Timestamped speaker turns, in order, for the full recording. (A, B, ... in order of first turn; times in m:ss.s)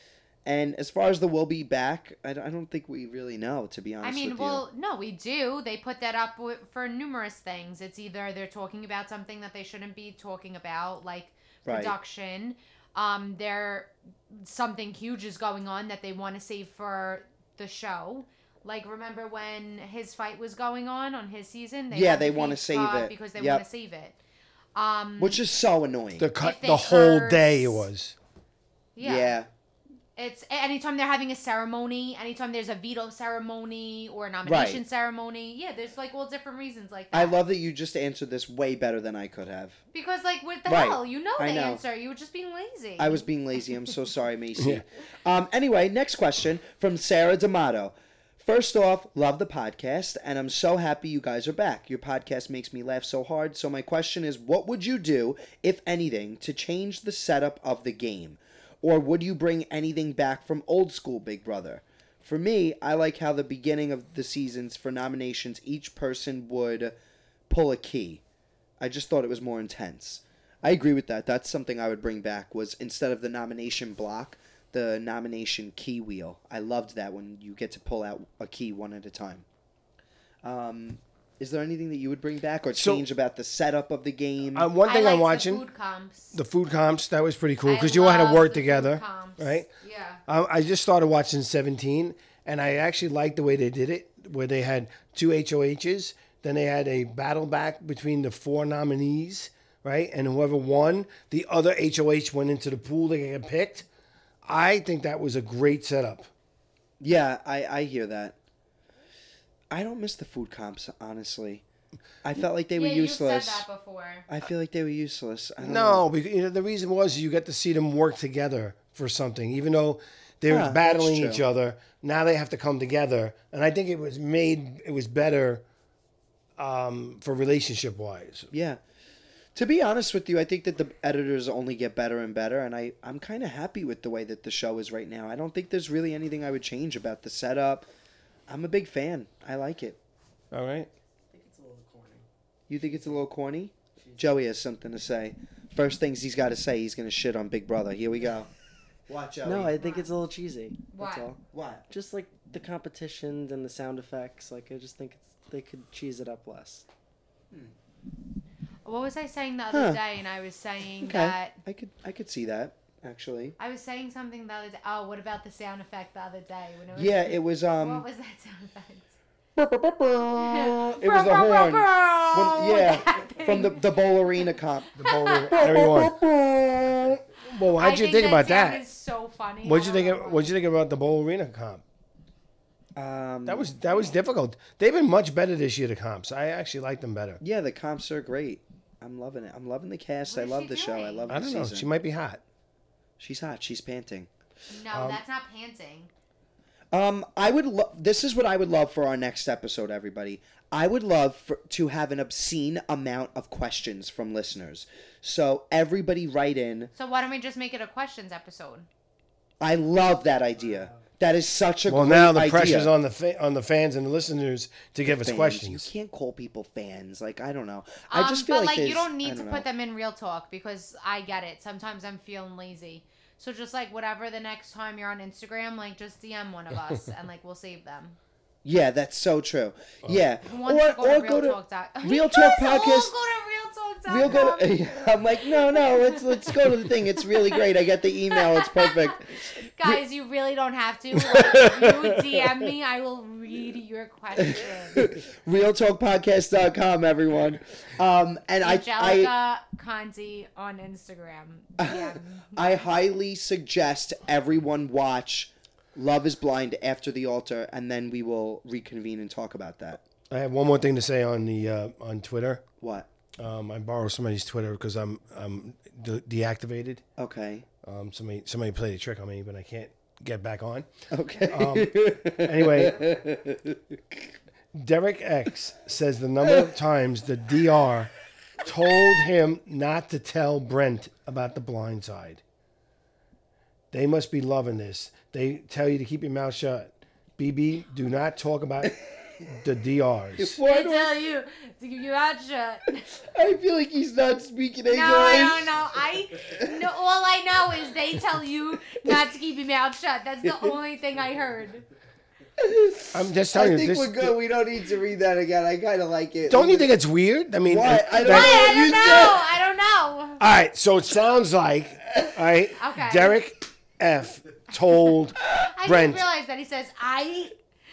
0:00.4-0:04.6 A
0:04.0-0:24.2 B
0:11.7-0:11.9 A
0:21.9-0:23.6 A
0:24.8-0:25.4 B
0:25.2-0:26.3 A
0:26.2-0:28.2 C
0:26.4-0:27.9 B
0:29.0-0:29.4 B
0:29.0-0:29.5 A
0:30.2-0:37.4 B
0:34.4-0:34.8 A
0:37.1-0:39.8 A
0:39.9-0:43.2 B
0:40.7-0:41.8 A
0:43.0-1:07.0 A
0:44.6-0:44.8 C
1:07.5-1:08.2 A
1:08.8-1:19.4 A
1:20.4-1:24.7 A
1:22.8-1:23.0 C
1:24.6-1:25.6 C
1:24.8-1:26.4 B
1:26.3-1:29.7 C
1:27.6-1:30.2 B
1:30.3-1:43.8 C
1:44.4-1:46.3 C
1:47.0-1:48.4 A
1:49.7-1:51.6 A
1:52.2-1:53.7 A
1:52.7-1:54.3 B
1:54.3-1:56.1 A
1:55.6-2:05.6 C
2:00.5-2:01.4 A
2:06.6-2:08.5 C
2:08.5-2:08.8 A
2:09.6-2:17.9 A
2:18.5-2:20.0 A
2:20.5-2:20.9 C
2:21.3-2:22.3 D
2:22.7-2:28.5 A
2:22.8-2:23.2 D
2:24.0-2:24.4 D
2:29.1-2:29.9 A
2:29.4-2:30.8 D
2:29.8-2:30.1 B
2:30.9-2:31.3 B
2:31.0-2:31.8 A
2:31.9-2:36.9 D
2:38.8-2:41.6 B
2:39.7-2:40.0 A
2:41.0-2:43.6 A
2:43.6-2:49.1 B
2:47.0-2:48.0 A
2:49.6-2:55.0 A
2:50.4-2:53.9 B
2:55.0-2:56.2 C
2:55.0-2:55.6 B
2:55.5-2:57.2 A
2:57.5-2:58.8 C
2:57.8-3:00.6 B
2:59.6-3:01.8 C
3:03.0-3:03.8 A
3:03.5-3:07.4 C
3:07.4-3:11.9 A
3:10.3-3:11.3 B
3:11.3-3:12.4 C
3:13.2-3:14.3 A
3:14.7-3:16.1 B
3:14.9-3:15.2 C
3:16.9-3:26.9 A
3:27.0-3:28.9 B
3:29.6-3:32.9 A
3:30.6-3:31.1 D
3:31.9-3:35.9 C
3:35.1-3:39.7 A
3:38.1-3:48.2 B
3:48.6-3:53.1 A
3:50.5-3:54.8 B
3:54.1-4:00.0 A
3:55.4-3:57.6 B
3:58.3-3:59.1 B
3:59.7-4:05.1 B
4:01.2-4:02.4 A
4:04.4-4:09.3 A
4:08.6-4:12.8 B
4:11.8-4:20.0 A
4:20.3-4:22.6 C
4:22.8-4:23.1 A
4:23.4-4:27.0 C
4:27.2-4:27.7 A
4:27.8-4:30.9 C
4:31.1-4:34.2 A
4:31.4-4:33.0 C
4:34.7-4:42.4 C
4:43.9-4:49.0 C
4:49.5-4:50.6 C
4:50.4-4:51.1 A
4:50.6-4:53.1 B
4:53.2-4:55.7 A
4:54.9-5:01.9 B
4:56.5-4:56.8 A
4:59.0-4:59.3 A
5:00.4-5:00.8 A
5:02.6-5:06.9 A
5:03.1-5:04.4 C
5:06.5-5:08.7 C
5:07.6-5:09.5 A
5:08.2-5:10.4 B
5:10.4-5:16.2 C
5:12.8-5:13.3 B
5:15.6-5:17.6 B